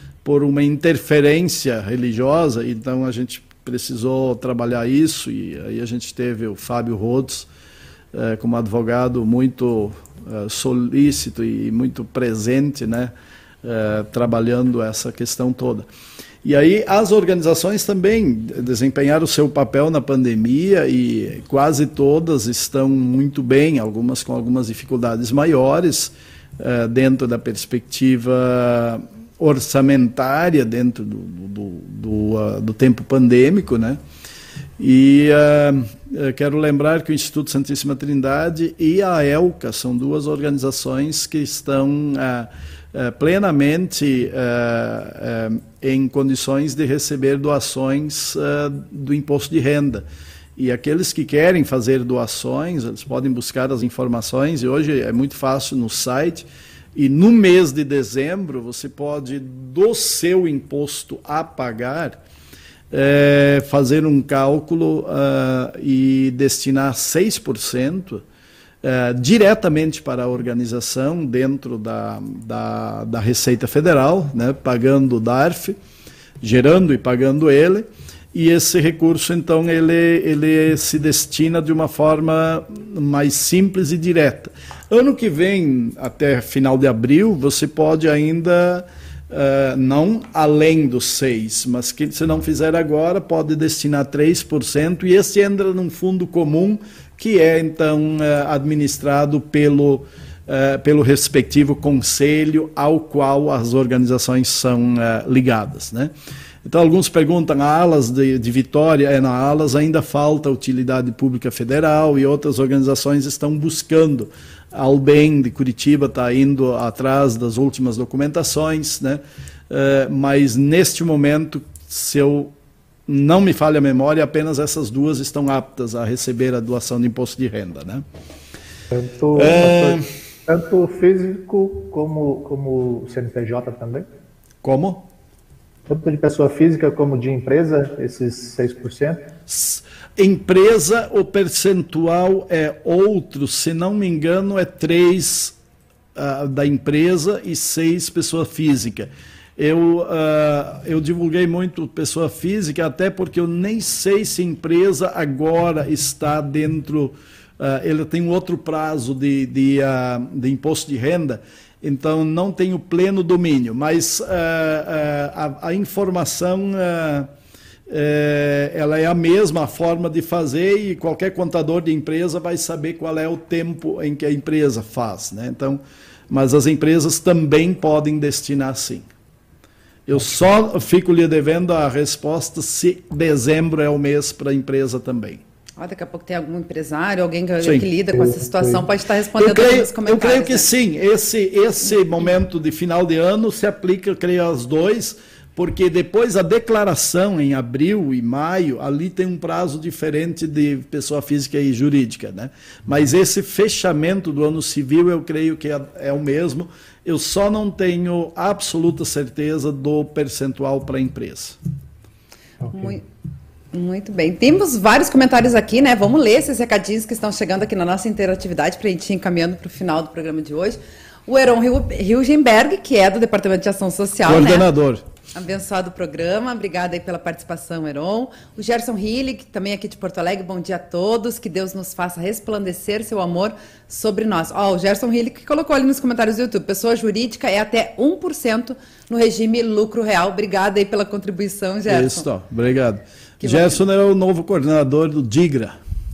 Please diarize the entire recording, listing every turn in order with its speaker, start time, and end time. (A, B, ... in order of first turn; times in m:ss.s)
0:00.2-0:07.5 A
0:08.1-0:13.1 A
0:13.6-0:15.9 A
0:16.4-0:34.0 A
0:34.8-0:50.1 A
0:50.6-1:02.2 A
1:02.9-1:08.2 A
1:08.8-1:15.8 A
1:16.4-1:46.1 A
1:46.6-2:02.5 A
2:03.1-2:08.0 A
2:08.9-2:14.0 B
2:09.3-2:10.0 A
2:14.6-2:15.1 A
2:15.9-2:19.3 B
2:19.5-2:25.6 A
2:26.2-2:47.3 A
2:47.9-2:59.0 A
3:00.1-3:05.4 A
3:05.8-3:10.7 C
3:07.6-3:07.9 A
3:08.2-3:08.8 B
3:09.4-3:31.6 A
3:32.7-3:33.0 C
3:33.7-3:44.7 C
3:44.3-3:45.0 A
3:45.3-4:02.3 C
4:01.9-4:05.8 A
4:03.4-4:03.8 C